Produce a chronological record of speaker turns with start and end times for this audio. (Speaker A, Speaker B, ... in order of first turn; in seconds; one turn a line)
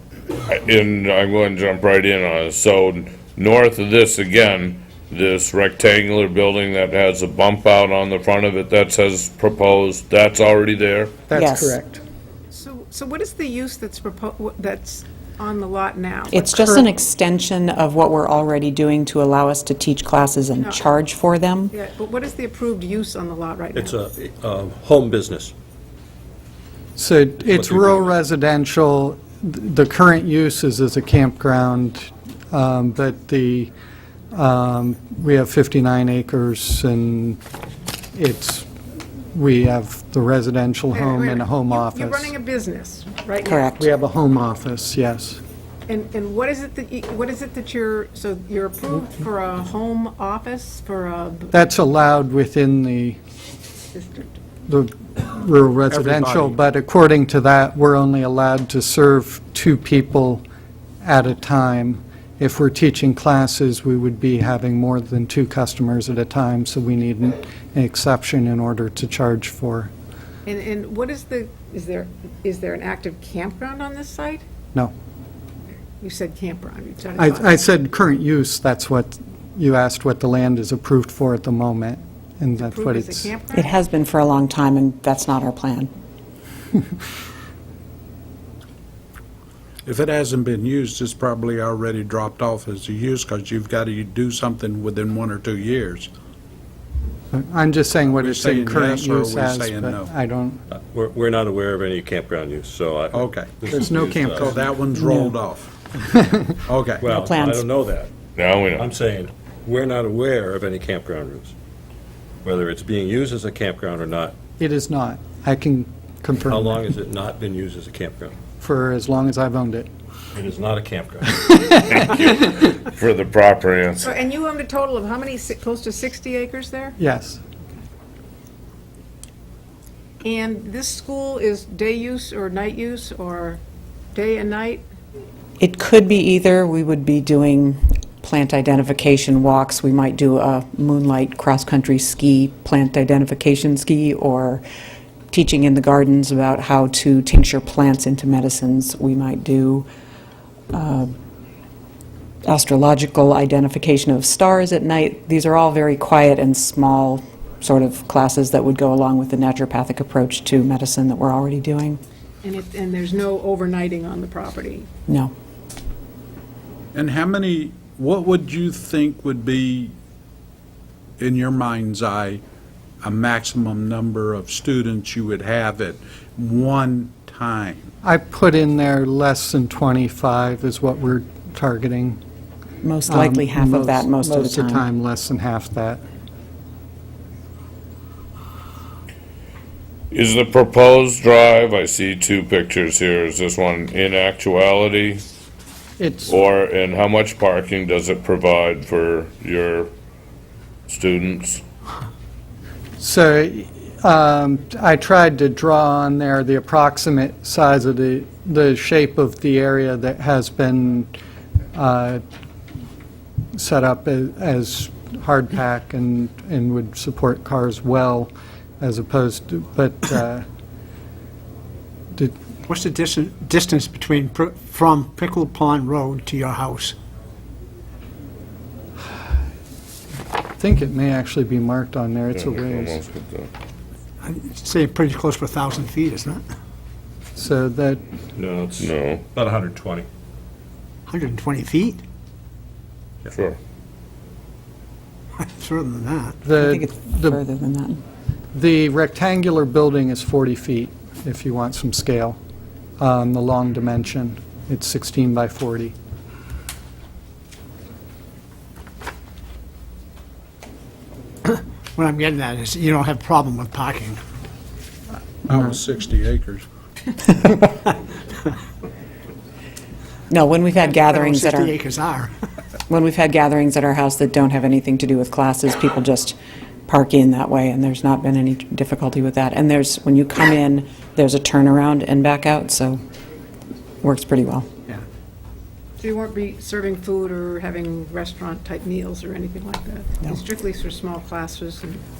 Speaker A: 0.5-11.2
Speaker B: 11.3-12.0
Speaker C: 11.3-11.8
Speaker D: 12.5-16.9
Speaker C: 16.3-21.7
Speaker D: 20.5-20.8
Speaker D: 21.7-24.0
Speaker E: 23.7-25.5
Speaker B: 27.0-33.7
Speaker E: 27.5-28.1
Speaker B: 34.3-37.4
Speaker B: 38.1-38.7
Speaker B: 39.3-42.3
Speaker D: 40.9-43.8
Speaker C: 43.5-43.8
Speaker B: 43.8-45.4
Speaker D: 45.9-51.5
Speaker B: 51.5-53.2
Speaker D: 53.9-54.3
Speaker B: 54.7-60.4
Speaker F: 55.9-56.6
Speaker B: 61.0-69.9
Speaker D: 70.5-74.4
Speaker D: 76.0-77.6
Speaker B: 77.2-83.3
Speaker D: 82.6-83.8
Speaker C: 83.5-85.9
Speaker F: 89.8-96.1
Speaker B: 97.3-100.6
Speaker F: 98.1-100.1
Speaker E: 100.7-104.5
Speaker F: 103.1-103.6
Speaker B: 103.7-105.3
Speaker F: 104.3-105.7
Speaker B: 106.1-106.6
Speaker F: 106.7-107.1
Speaker E: 107.0-108.1
Speaker C: 107.1-107.7
Speaker A: 108.4-108.9
Speaker E: 108.8-111.5
Speaker E: 112.4-114.3
Speaker B: 114.6-116.8
Speaker E: 116.4-118.3
Speaker B: 118.6-119.9
Speaker E: 120.3-121.9
Speaker A: 122.0-124.1
Speaker D: 124.0-127.0
Speaker B: 127.0-127.4
Speaker D: 130.2-133.6
Speaker D: 134.1-134.8
Speaker C: 135.6-144.6
Speaker C: 145.3-149.9
Speaker C: 150.7-151.1
Speaker C: 152.5-162.0
Speaker D: 162.4-164.9
Speaker F: 166.9-169.9
Speaker F: 171.2-172.4
Speaker F: 173.0-177.9
Speaker B: 178.0-182.2
Speaker C: 182.8-184.9
Speaker B: 183.1-186.0
Speaker A: 190.1-195.2
Speaker B: 196.0-196.4
Speaker A: 196.3-199.9
Speaker A: 200.9-201.6
Speaker B: 203.0-211.1
Speaker B: 211.7-212.2
Speaker B: 213.5-220.4
Speaker G: 222.7-227.0
Speaker B: 230.6-233.0
Speaker A: 232.4-233.5
Speaker G: 234.2-236.4
Speaker B: 237.3-238.0
Speaker E: 238.4-240.1
Speaker A: 238.8-239.2
Speaker G: 241.1-242.0
Speaker A: 243.3-243.6
Speaker G: 245.4-246.4
Speaker B: 246.4-247.4
Speaker C: 246.6-248.0
Speaker B: 248.5-252.4
Speaker B: 253.0-256.0
Speaker G: 261.5-264.2
Speaker F: 265.5-266.7
Speaker C: 270.3-271.8
Speaker G: 270.9-272.3
Speaker C: 272.9-283.0
Speaker C: 284.0-284.7
Speaker D: 286.0-292.0